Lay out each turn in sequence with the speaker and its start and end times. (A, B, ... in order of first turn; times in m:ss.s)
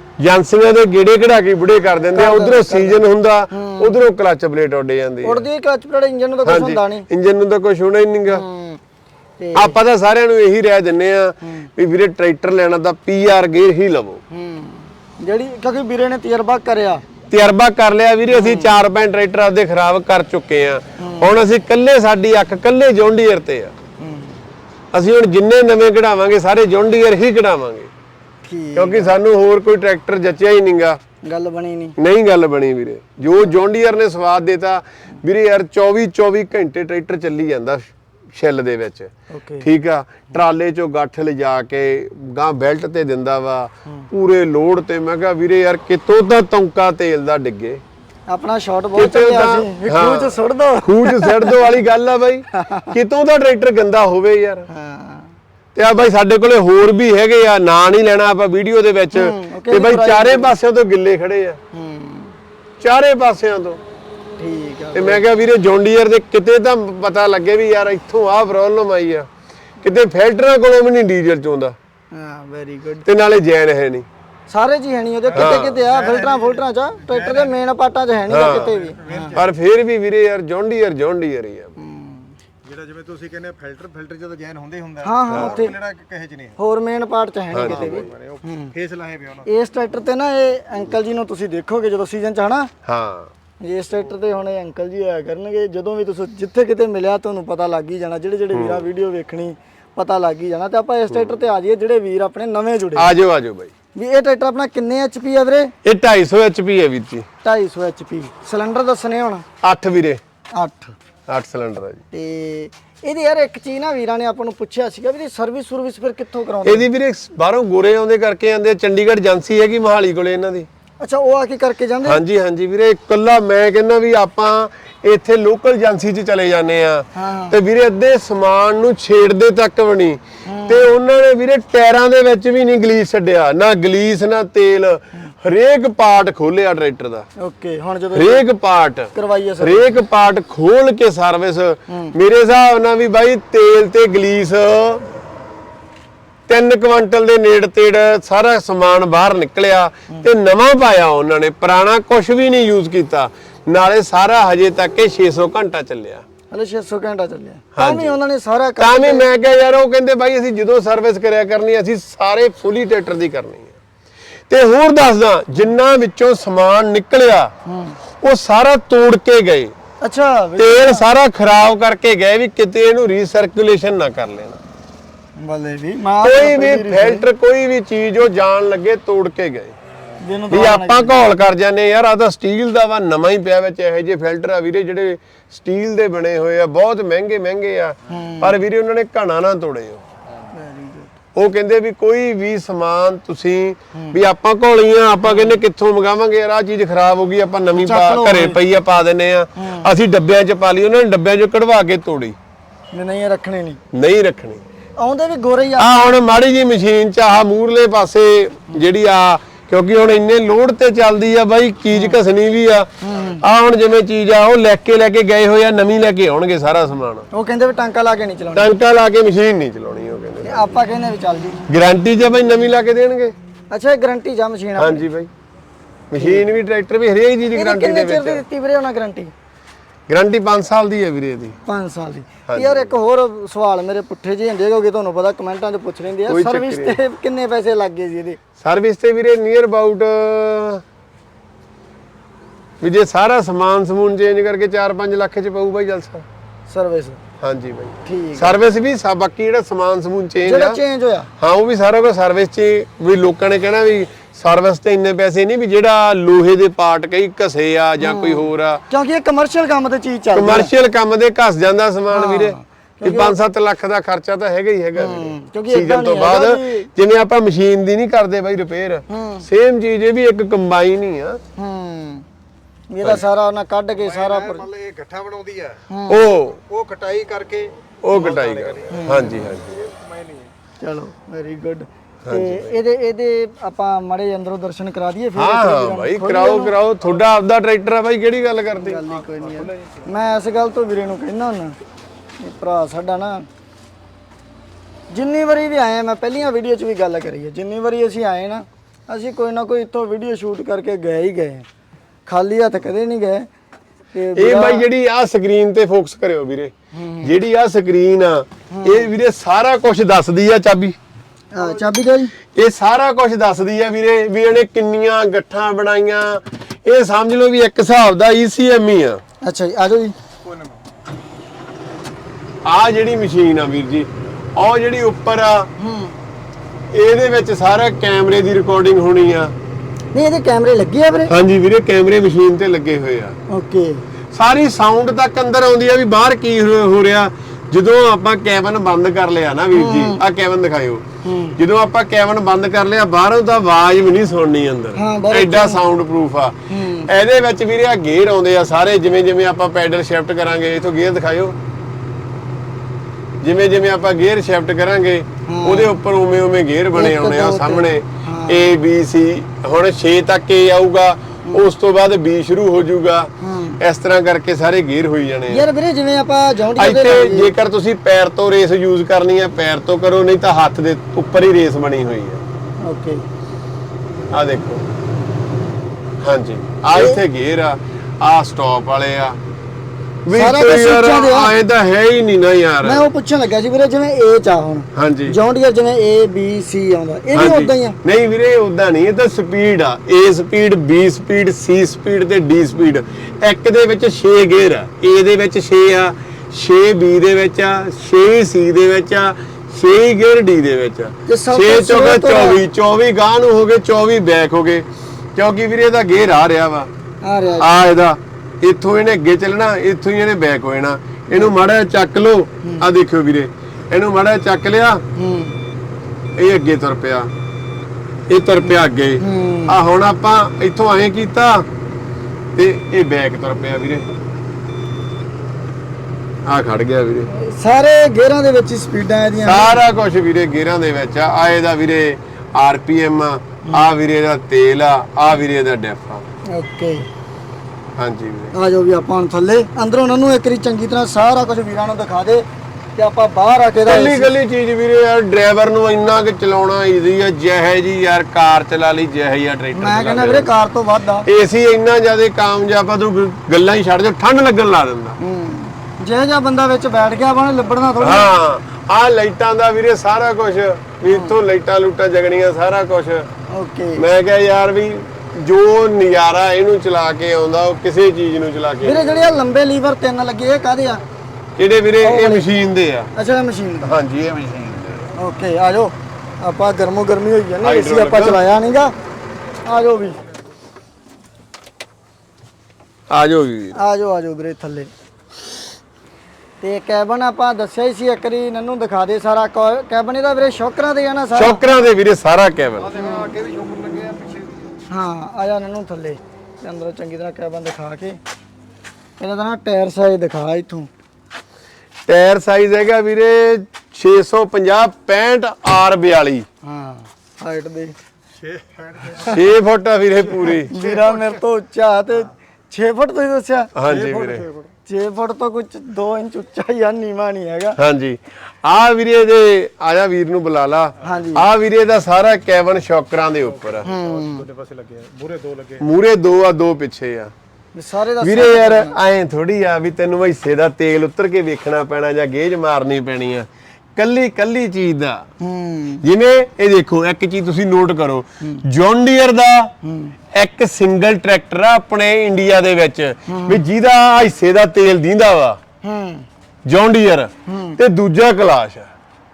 0:00.2-0:05.4 A
0:02.1-0:03.9 B
0:05.2-0:07.1 B
0:06.4-0:08.4 A
0:08.3-0:08.8 B
0:09.4-0:09.8 B
0:09.5-0:14.2 A
0:11.4-0:11.7 B
0:14.3-0:17.0 B
0:17.3-0:23.7 A
0:18.3-0:18.8 B
0:21.0-0:21.3 B
0:24.0-0:24.4 B
0:24.9-0:27.9 A
0:28.4-0:29.2 B
0:28.8-0:31.0 A
0:31.2-0:32.0 B
0:32.0-0:47.8 A
0:39.3-0:39.7 B
0:48.3-0:51.6 B
0:49.0-0:54.7 A
0:52.6-0:52.9 B
0:54.7-0:55.3 B
0:55.7-1:01.6 A
0:59.1-1:00.5 B
1:01.7-1:02.4 B
1:02.8-1:03.8 A
1:04.4-1:05.2 B
1:04.9-1:09.3 A
1:09.8-1:11.7 A
1:12.1-1:13.0 B
1:13.0-1:14.1 A
1:14.5-1:19.4 B
1:15.3-1:17.5 C
1:15.3-1:15.8 A
1:18.3-1:18.7 A
1:18.4-1:19.5 C
1:19.3-1:21.7 A
1:21.8-1:22.3 B
1:22.6-1:26.6 C
1:25.0-1:25.8 B
1:25.3-1:25.6 A
1:26.6-1:28.7 B
1:27.5-1:28.1 A
1:27.6-1:29.5 C
1:29.4-1:32.7 B
1:32.8-1:33.3 A
1:33.6-1:43.1 B
1:38.5-1:38.8 A
1:43.0-1:43.7 A
1:43.9-1:45.7 B
1:45.8-1:47.3 A
1:47.4-1:49.4 B
1:49.6-1:50.2 A
1:50.6-1:50.9 B
1:51.3-1:52.0 A
1:52.1-1:56.9 B
1:56.6-2:00.7 A
2:01.0-2:02.2 B
2:02.0-2:17.3 A
2:07.1-2:07.6 B
2:10.4-2:10.9 B
2:17.4-2:18.4 B
2:18.1-2:25.1 A
2:19.1-2:19.9 B
2:21.9-2:22.1 B
2:26.5-2:36.2 A
2:36.5-2:39.3 B
2:37.7-2:38.2 A
2:38.8-2:43.8 A
2:44.5-2:47.5 A
2:47.6-2:48.0 B
2:48.2-2:49.7 A
2:50.0-2:51.1 B
2:50.6-2:54.6 A
2:55.4-2:57.2 B
2:56.2-2:59.7 A
3:00.2-3:01.2 B
3:00.5-3:10.0 A
3:08.1-3:08.6 B
3:10.5-3:11.1 B
3:11.3-3:22.4 A
3:13.9-3:14.2 B
3:15.2-3:15.5 B
3:17.7-3:18.6 B
3:19.6-3:19.9 B
3:22.9-3:23.8 B
3:23.9-3:24.6 A
3:25.0-3:26.1 B
3:25.8-3:37.2 A
3:31.9-3:32.2 B
3:33.0-3:33.4 B
3:37.3-3:38.7 B
3:38.5-3:40.7 A
3:40.4-3:41.6 B
3:41.7-3:43.3 A
3:43.7-3:45.0 B
3:44.8-3:45.3 A
3:46.1-3:48.4 A
3:46.2-3:46.4 B
3:47.5-3:49.3 B
3:50.1-3:51.6 A
3:51.6-3:58.4 B
3:52.5-3:52.9 A
3:56.3-3:57.0 A
3:58.6-4:00.8 A
4:02.8-4:06.2 A
4:06.7-4:07.2 B
4:07.4-4:10.8 A
4:08.0-4:08.6 B
4:10.4-4:11.3 B
4:11.4-4:18.8 A
4:18.0-4:20.7 B
4:20.3-4:31.4 A
4:22.1-4:23.4 B
4:25.0-4:26.9 B
4:29.1-4:29.4 B
4:31.6-4:32.2 B
4:32.9-4:34.7 B
4:34.0-4:35.8 C
4:35.9-4:36.2 B
4:36.1-4:36.6 A
4:36.6-4:40.5 C
4:38.0-4:39.9 A
4:38.9-4:39.5 B
4:40.8-4:46.7 B
4:42.2-4:42.7 A
4:45.4-4:49.0 A
4:48.7-4:51.8 B
4:49.1-4:50.1 C
4:52.4-4:53.4 B
4:55.1-5:01.7 B
5:02.2-5:03.5 B
5:04.1-5:04.9 B
5:04.4-5:11.0 A
5:06.9-5:07.3 B
5:08.7-5:09.1 B
5:11.5-5:12.3 B
5:12.5-5:19.2 A
5:19.4-5:20.1 B
5:20.4-5:20.8 C
5:22.6-5:25.7 A
5:25.8-5:26.2 B
5:26.9-5:29.5 A
5:30.1-5:31.3 B
5:31.3-5:33.4 A
5:33.5-5:34.0 B
5:34.3-5:41.0 A
5:39.7-5:40.2 B
5:41.2-5:41.6 B
5:41.6-5:51.6 A
5:44.9-5:45.8 B
5:46.7-5:47.1 B
5:53.4-6:05.6 A
5:55.5-5:56.0 B
5:56.9-5:58.7 B
6:03.4-6:03.8 B
6:05.5-6:07.5 B
6:06.8-6:12.4 A
6:12.8-6:13.2 B
6:14.3-6:14.8 A
6:16.2-6:19.4 A
6:20.2-6:23.1 A
6:20.3-6:21.5 B
6:22.8-6:28.0 B
6:24.9-6:25.4 A
6:27.3-6:46.9 A
6:41.3-6:42.6 B
6:47.2-6:47.7 B
6:47.6-6:55.0 A
6:55.2-6:55.6 B
6:56.4-6:57.3 A
6:58.3-7:01.7 A
6:59.2-6:59.7 B
7:02.5-7:04.1 A
7:06.4-7:07.3 A
7:07.3-7:09.8 B
7:09.4-7:16.2 A
7:16.5-7:17.1 B
7:18.0-7:18.5 A
7:18.5-7:24.3 B
7:23.8-7:30.5 A
7:29.7-7:31.2 B
7:31.2-7:35.2 A
7:35.2-7:38.3 B
7:38.0-7:43.3 A
7:41.0-7:41.3 B
7:43.5-7:44.0 B
7:44.0-7:49.3 A
7:48.8-7:51.0 B
7:51.6-7:53.1 A
7:52.0-7:52.5 B
7:53.1-7:54.0 B
7:53.8-7:55.1 A
7:55.2-7:58.9 B
7:57.6-7:58.4 A
7:59.6-8:00.2 B
8:03.1-8:03.8 A
8:03.7-8:04.9 B
8:06.6-8:11.6 B
8:11.3-8:13.0 A
8:12.8-8:14.8 C
8:13.0-8:13.3 B
8:14.9-8:18.2 B
8:19.2-8:20.9 B
8:22.0-8:26.4 A
8:26.6-8:27.9 B
8:28.4-8:29.5 C
8:29.2-8:30.7 A
8:30.7-8:31.3 C
8:30.7-8:33.7 B
8:33.7-8:34.5 A
8:33.8-8:34.7 C
8:34.8-8:37.8 B
8:37.8-8:43.9 A
8:41.0-8:41.4 B
8:43.5-8:45.8 C
8:43.8-8:44.5 B
8:45.8-8:47.3 A
8:47.7-8:49.0 B
8:48.2-8:55.2 A
8:55.4-8:56.0 B
8:56.0-8:59.7 A
8:59.8-9:00.2 B
9:00.3-9:05.6 A
9:03.3-9:03.6 B
9:05.8-9:06.2 B
9:06.6-9:08.9 A
9:07.4-9:07.8 B